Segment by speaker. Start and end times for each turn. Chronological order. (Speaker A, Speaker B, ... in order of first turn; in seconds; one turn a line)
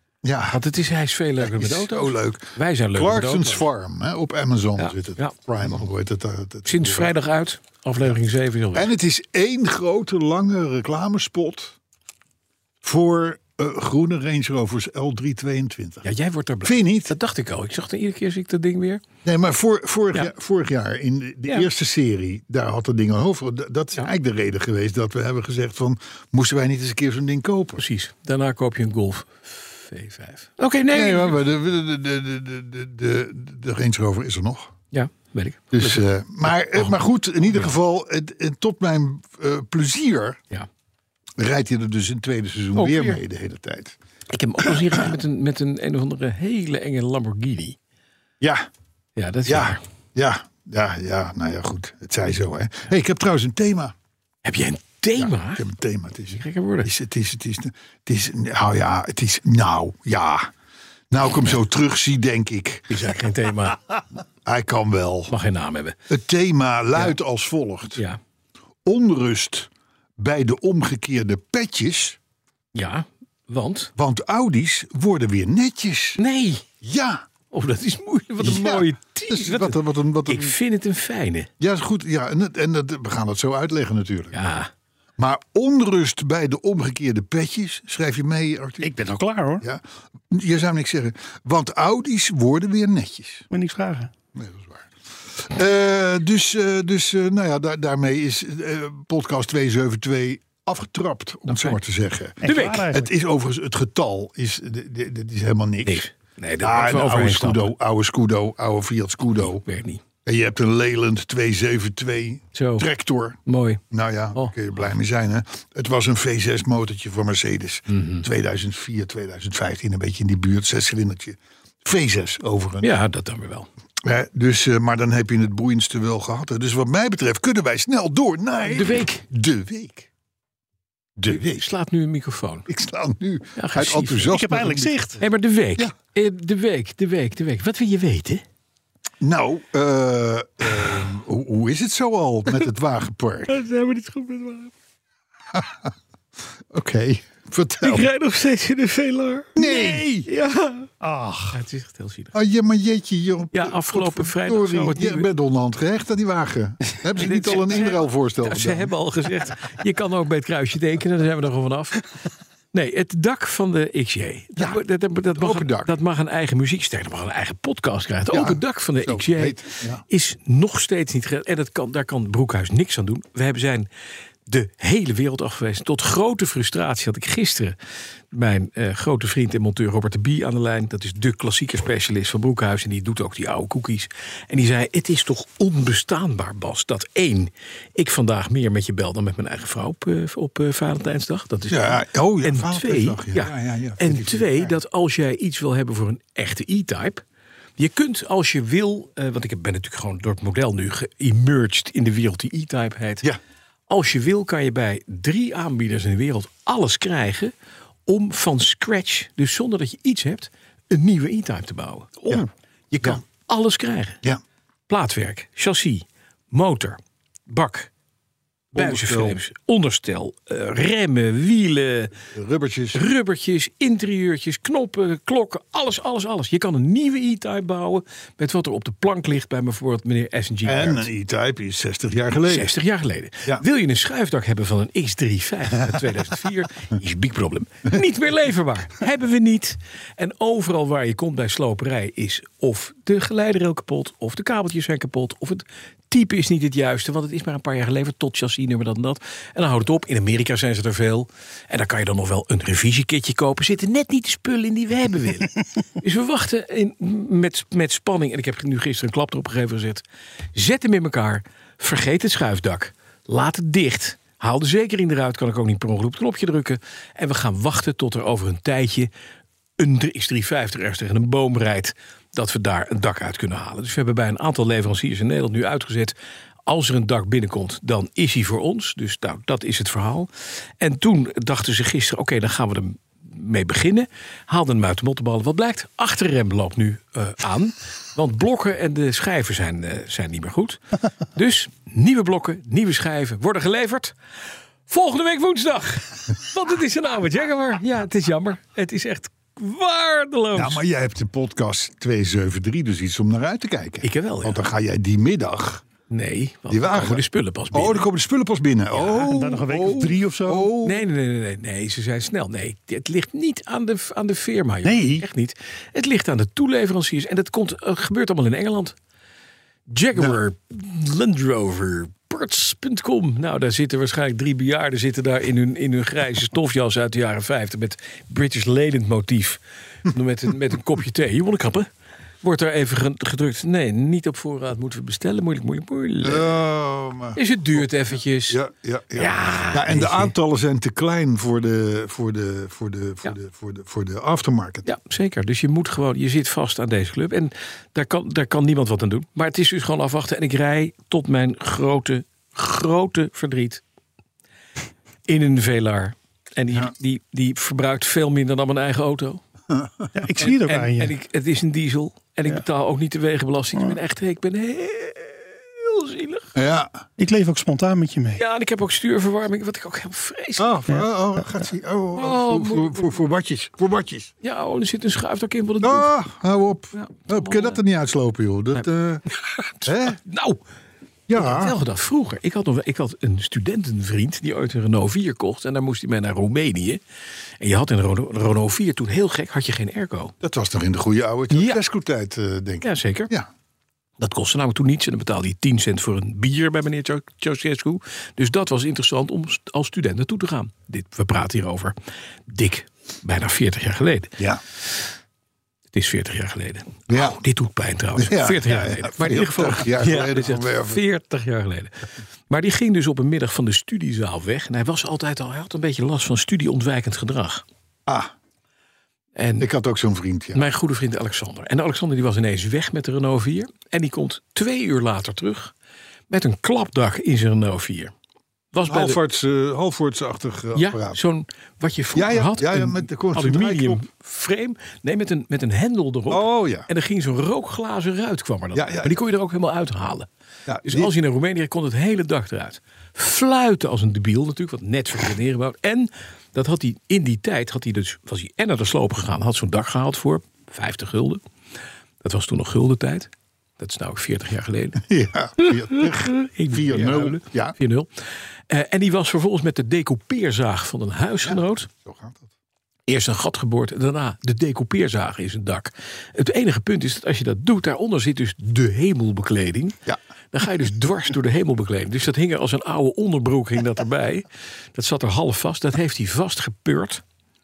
Speaker A: 0.2-0.6
Speaker B: 0.5-3.7
Speaker A: 1.4-7.1
Speaker B: 4.8-5.4
Speaker B: 6.7-8.9
Speaker A: 8.7-11.8
Speaker A: 12.8-16.1
Speaker B: 16.0-19.0
Speaker A: 16.6-17.1
Speaker A: 19.2-27.8
Speaker B: 27.8-31.4
Speaker A: 30.9-34.7
Speaker B: 34.9-37.0
Speaker A: 35.7-40.4
Speaker A: 41.4-44.0
Speaker B: 42.8-43.2
Speaker B: 44.3-47.8
Speaker A: 44.6-45.1
Speaker A: 48.4-48.7
Speaker B: 49.2-49.8
Speaker A: 49.5-53.9
Speaker B: 54.5-55.6
Speaker A: 55.2-60.5
Speaker B: 56.3-56.9
Speaker A: 61.1-63.1
Speaker B: 62.9-63.8
Speaker A: 64.4-65.3
Speaker B: 65.3-66.0
Speaker A: 66.1-68.0
Speaker A: 68.8-72.2
Speaker B: 72.7-73.9
Speaker A: 74.0-76.2
Speaker B: 76.2-76.7
Speaker A: 76.8-77.3
Speaker B: 77.5-81.5
Speaker A: 78.4-80.6
Speaker A: 81.6-84.4
Speaker B: 84.3-84.7
Speaker A: 85.2-88.9
Speaker C: 88.8-89.6
Speaker A: 89.6-93.5
Speaker C: 93.5-94.1
Speaker A: 94.3-106.0
Speaker B: 101.5-101.8
Speaker B: 102.4-103.0
Speaker C: 102.4-103.0
Speaker B: 105.8-107.7
Speaker A: 106.6-109.7
Speaker B: 109.6-110.0
Speaker A: 110.2-113.4
Speaker B: 112.5-112.9
Speaker B: 113.5-113.8
Speaker A: 113.9-122.9
Speaker B: 117.9-118.2
Speaker B: 122.8-123.7
Speaker A: 124.0-130.1
Speaker B: 128.7-129.2
Speaker A: 131.2-131.7
Speaker B: 131.6-132.7
Speaker A: 132.7-134.9
Speaker B: 133.6-134.4
Speaker C: 134.3-135.2
Speaker B: 135.2-138.4
Speaker A: 139.2-143.6
Speaker B: 143.5-144.7
Speaker A: 145.5-145.9
Speaker A: 146.7-148.1
Speaker B: 147.8-150.9
Speaker A: 149.6-150.3
Speaker C: 151.0-151.6
Speaker B: 151.5-152.3
Speaker A: 152.3-158.9
Speaker B: 153.5-155.3
Speaker B: 157.2-162.0
Speaker B: 162.7-173.9
Speaker A: 165.3-165.9
Speaker A: 168.3-170.0
Speaker B: 174.5-177.8
Speaker B: 178.3-197.2
Speaker A: 191.7-194.8
Speaker B: 197.8-203.3
Speaker B: 203.9-207.5
Speaker B: 208.1-214.2
Speaker B: 214.9-217.9
Speaker B: 218.7-222.2
Speaker A: 218.8-219.4
Speaker A: 222.3-223.0
Speaker B: 222.9-231.1
Speaker A: 230.7-232.7
Speaker B: 232.5-260.0
Speaker B: 260.6-269.1
Speaker B: 269.8-276.1
Speaker B: 276.7-290.8
Speaker B: 291.3-294.1
Speaker B: 294.9-300.8
Speaker A: 300.6-305.8
Speaker B: 304.0-304.6
Speaker B: 306.1-308.0
Speaker A: 306.7-311.0
Speaker B: 308.9-309.3
Speaker C: 309.2-310.7
Speaker B: 310.8-318.9
Speaker C: 314.9-315.2
Speaker B: 319.9-331.9
Speaker B: 332.4-336.5
Speaker A: 336.2-337.9
Speaker B: 337.4-338.6
Speaker A: 338.5-344.9
Speaker B: 339.1-340.3
Speaker B: 344.9-353.8
Speaker B: 355.3-359.4
Speaker A: 359.7-360.1
Speaker C: 360.1-361.1
Speaker B: 360.4-366.5
Speaker A: 366.6-367.1
Speaker C: 367.2-368.4
Speaker B: 368.4-370.7
Speaker A: 370.6-374.3
Speaker C: 370.9-371.4
Speaker B: 372.2-373.1
Speaker B: 374.4-376.1
Speaker A: 375.8-379.2
Speaker B: 376.9-377.8
Speaker B: 379.8-380.6
Speaker A: 379.9-380.2
Speaker A: 381.3-381.8
Speaker B: 381.4-387.0
Speaker B: 387.6-390.3
Speaker A: 390.4-393.5
Speaker B: 391.5-391.8
Speaker B: 392.8-393.3
Speaker B: 394.2-401.9
Speaker B: 402.5-404.4
Speaker B: 405.9-417.6
Speaker A: 407.1-407.4
Speaker A: 408.2-411.0
Speaker A: 418.1-418.3
Speaker B: 419.4-419.7
Speaker A: 419.6-420.6
Speaker B: 420.5-425.7
Speaker B: 426.3-428.1
Speaker B: 428.7-429.2
Speaker A: 428.8-431.2
Speaker B: 430.8-440.3
Speaker A: 432.1-434.1
Speaker A: 436.3-436.9
Speaker A: 438.7-439.1
Speaker A: 440.7-441.1
Speaker B: 440.8-451.4
Speaker B: 452.2-455.0
Speaker A: 455.0-457.8
Speaker B: 455.6-458.1
Speaker B: 458.7-461.9
Speaker A: 461.4-462.5
Speaker B: 463.1-470.0
Speaker B: 470.5-477.2